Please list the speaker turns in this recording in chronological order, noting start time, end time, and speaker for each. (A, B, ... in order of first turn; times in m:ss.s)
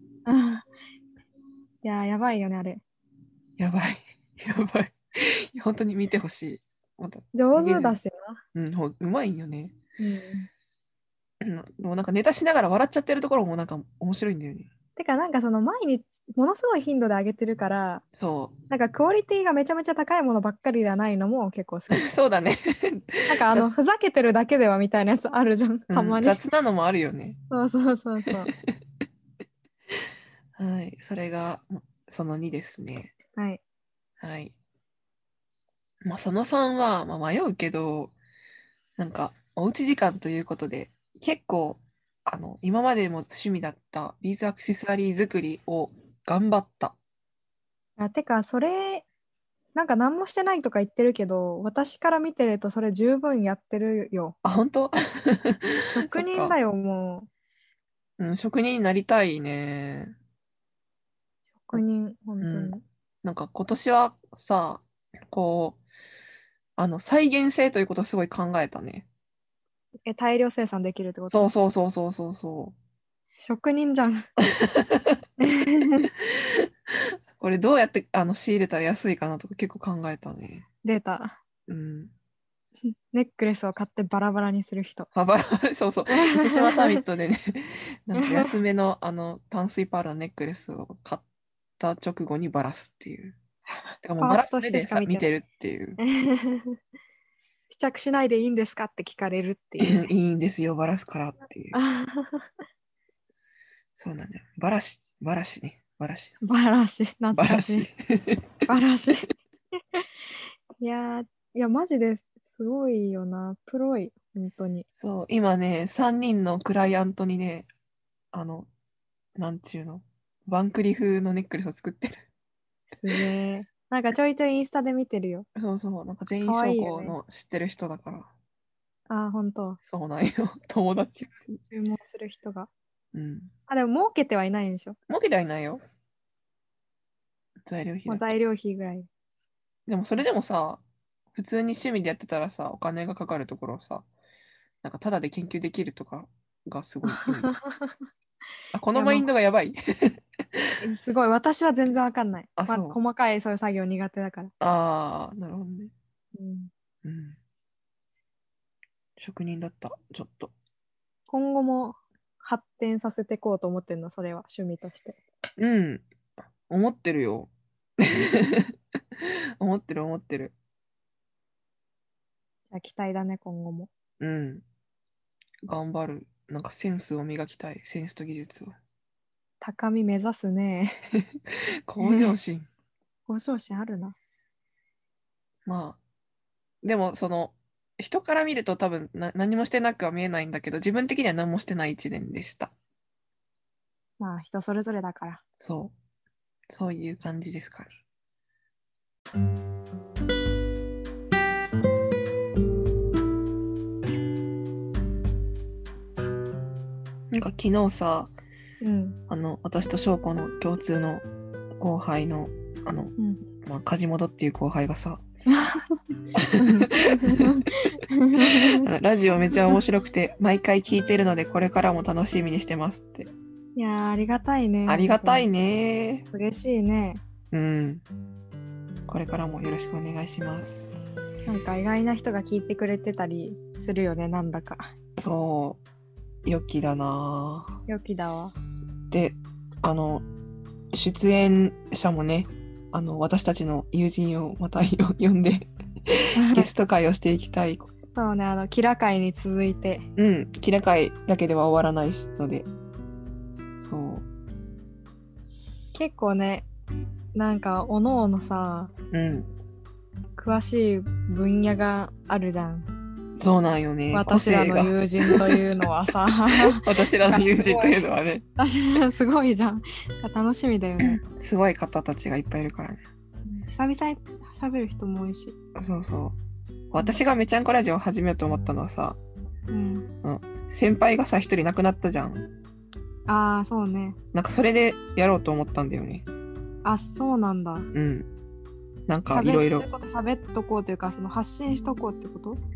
0:00.2-0:00.7 A
0:01.8-0:02.8 A
0:03.6-0:08.0 B
0:07.3-0:08.4 A
0:08.6-0:09.8 B
0:10.0-0:10.5 A
0:11.4-0:14.7 B
0:15.0-0:18.0 A
0:18.2-0:18.6 B
0:18.7-0:22.0 A
0:21.9-0:23.7 B
0:23.3-0:26.4 A
0:25.9-0:27.4 B
0:27.5-0:28.5 A
0:30.6-0:33.1 B
0:33.4-0:33.6 A
0:34.2-0:34.6 B
0:36.0-0:38.2 B
0:39.0-0:47.0 B
0:48.0-0:49.1 A
0:49.8-0:54.4 A
0:54.4-0:56.6 B
0:55.9-0:57.3 A
0:58.2-1:00.1 B
1:01.6-1:02.8 A
1:02.4-1:05.8 B
1:06.8-1:09.1 B
1:10.1-1:11.5 A
1:11.3-1:12.8 B
1:13.4-1:14.2 A
1:14.5-1:15.2 B
1:15.4-1:16.1 A
1:17.4-1:20.7 B
1:20.8-1:21.4 A
1:21.7-1:22.1 B
1:23.1-1:25.1 A
1:25.1-1:31.2 B
1:26.1-1:27.0 A
1:28.2-1:28.6 A
1:31.8-1:33.4 B
1:34.0-1:36.0 B
1:34.2-1:35.3 A
1:36.0-1:36.8 A
1:37.7-1:40.1 A
1:39.8-1:41.8 B
1:41.7-1:42.5 A
1:44.0-1:46.4 B
1:46.4-1:47.9 A
1:47.4-1:48.5 B
1:48.7-1:49.4 A
1:50.8-1:54.9 A
1:55.0-1:57.7 B
1:58.3-1:58.7 B
1:59.4-2:02.2 B
2:02.9-2:05.5 A
2:05.6-2:08.3 B
2:06.4-2:07.2 A
2:09.1-2:09.8 A
2:09.8-2:11.6 B
2:11.7-2:12.7 A
2:13.1-2:13.5 B
2:13.7-2:15.0 A
2:15.1-2:15.8 B
2:17.6-2:18.3 B
2:18.1-2:19.1 A
2:19.9-2:20.8 B
2:21.3-2:24.1 B
2:24.8-2:27.5 B
2:27.1-2:28.0 A
2:28.7-2:30.2 B
2:28.9-2:29.3 A
2:30.8-2:34.5 A
2:32.6-2:33.0 B
2:34.6-2:35.9 B
2:36.4-2:36.7 A
2:37.0-2:37.4 B
2:39.2-2:40.5 B
2:41.3-2:45.2 A
2:45.6-2:46.1 B
2:46.7-2:48.7 B
2:49.6-2:50.5 B
2:52.7-2:53.9 A
2:54.2-2:54.6 B
2:55.6-2:58.7 B
2:59.6-3:01.0 A
3:01.9-3:02.7 B
3:02.0-3:02.3 A
3:03.3-3:04.2 A
3:05.7-3:06.0 B
3:06.8-3:12.7 B
3:14.2-3:15.4 A
3:15.6-3:15.9 B
3:16.7-3:17.9 B
3:27.3-3:28.3 B
3:28.8-3:29.2 A
3:29.3-3:31.2 B
3:31.8-3:33.1 B
3:33.2-3:33.5 A
3:33.6-3:35.2 B
3:35.5-3:35.8 A
3:36.4-3:37.5 B
3:36.6-3:38.9 A
3:38.6-3:43.3 B
3:43.8-3:45.5 A
3:44.9-3:46.3 B
3:46.3-3:47.2 A
3:47.5-3:48.0 B
3:49.1-3:50.9 B
3:51.5-3:54.9 A
3:55.2-3:55.8 B
3:56.4-3:57.8 B
3:57.9-3:58.6 A
3:59.1-4:00.2 B
4:00.9-4:07.9 B
4:06.4-4:06.7 A
4:08.1-4:10.1 A
4:10.2-4:12.7 B
4:13.8-4:14.2 B
4:15.9-4:16.7 A
4:17.4-4:18.9 A
4:19.1-4:19.5 B
4:20.4-4:22.9 A
4:23.4-4:25.6 B
4:24.1-4:31.2 A
4:26.6-4:28.4 B
4:31.0-4:33.0 B
4:33.5-4:35.6 A
4:35.8-4:36.4 B
4:36.9-4:39.2 B
4:39.7-4:40.1 A
4:40.2-4:42.5 B
4:43.3-4:44.2 A
4:44.3-4:46.3 B
4:46.8-4:47.9 A
4:47.9-4:48.3 B
4:49.1-4:49.9 B
4:49.3-4:52.6 A